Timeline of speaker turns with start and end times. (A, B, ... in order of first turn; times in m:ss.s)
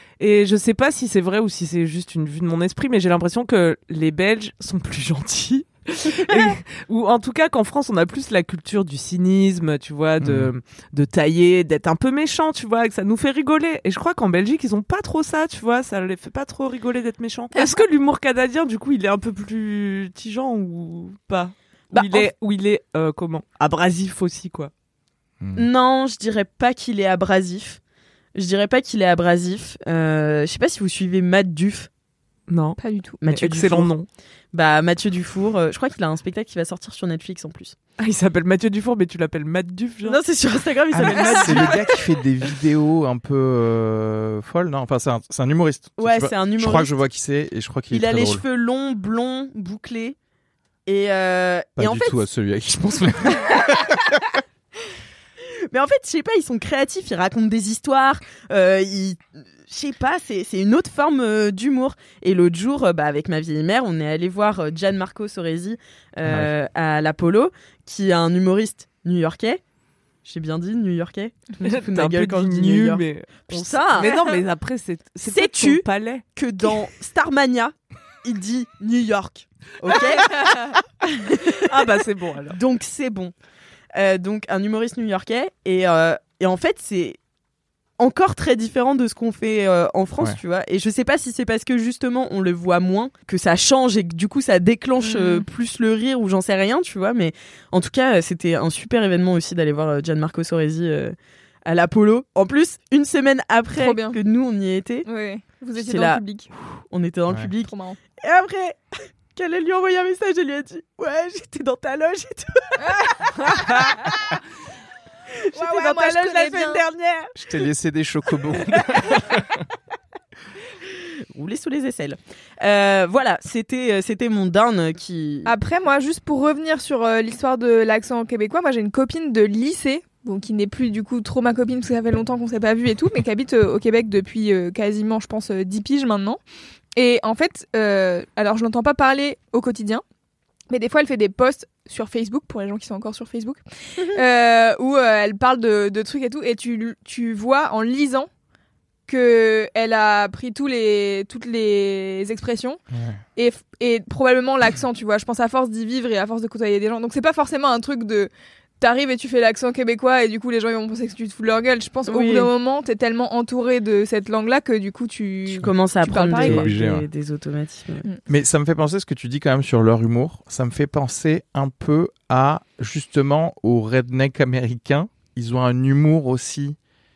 0:00.2-0:24.7 A
0:10.2-0:10.5 B
0:21.9-0:22.3 C
0:25.4-0:25.7 B
0:25.5-0:27.8 C
0:28.3-0:31.9 C
0:32.5-0:34.1 A
0:32.8-0:33.2 D
0:33.2-0:33.9 C
0:34.5-0:37.8 C
0:38.0-0:40.2 A
0:40.0-0:42.0 C
0:40.9-0:48.4 B
0:41.2-0:41.7 D
0:46.0-0:46.9 C
0:47.9-0:50.2 C
0:50.8-0:52.2 C
0:51.8-0:54.2 B
0:55.7-1:09.6 C
1:06.2-1:06.5 B
1:10.2-1:14.4 C
1:11.6-1:16.2 A
1:15.2-1:22.0 C
1:21.6-1:22.6 A
1:22.5-1:23.3 C
1:23.9-1:27.2 C
1:28.0-1:45.1 C
1:35.0-1:35.4 D
1:43.7-1:44.2 D
1:45.0-1:46.5 D
1:45.8-1:46.2 C
1:46.9-1:54.3 C
1:47.6-1:48.0 D
1:52.8-1:53.1 D
1:53.4-1:54.0 A
1:55.5-1:57.3 C
1:55.5-1:56.8 D
1:57.4-1:59.5 B
2:00.9-2:05.5 C
2:05.4-2:16.4 D
2:17.0-2:20.0 D
2:20.7-2:28.3 D
2:29.1-2:32.8 D
2:32.9-2:33.2 B
2:33.4-2:46.7 D
2:42.0-2:42.5 C
2:45.5-2:48.0 C
2:46.4-2:47.0 B
2:48.3-2:56.8 B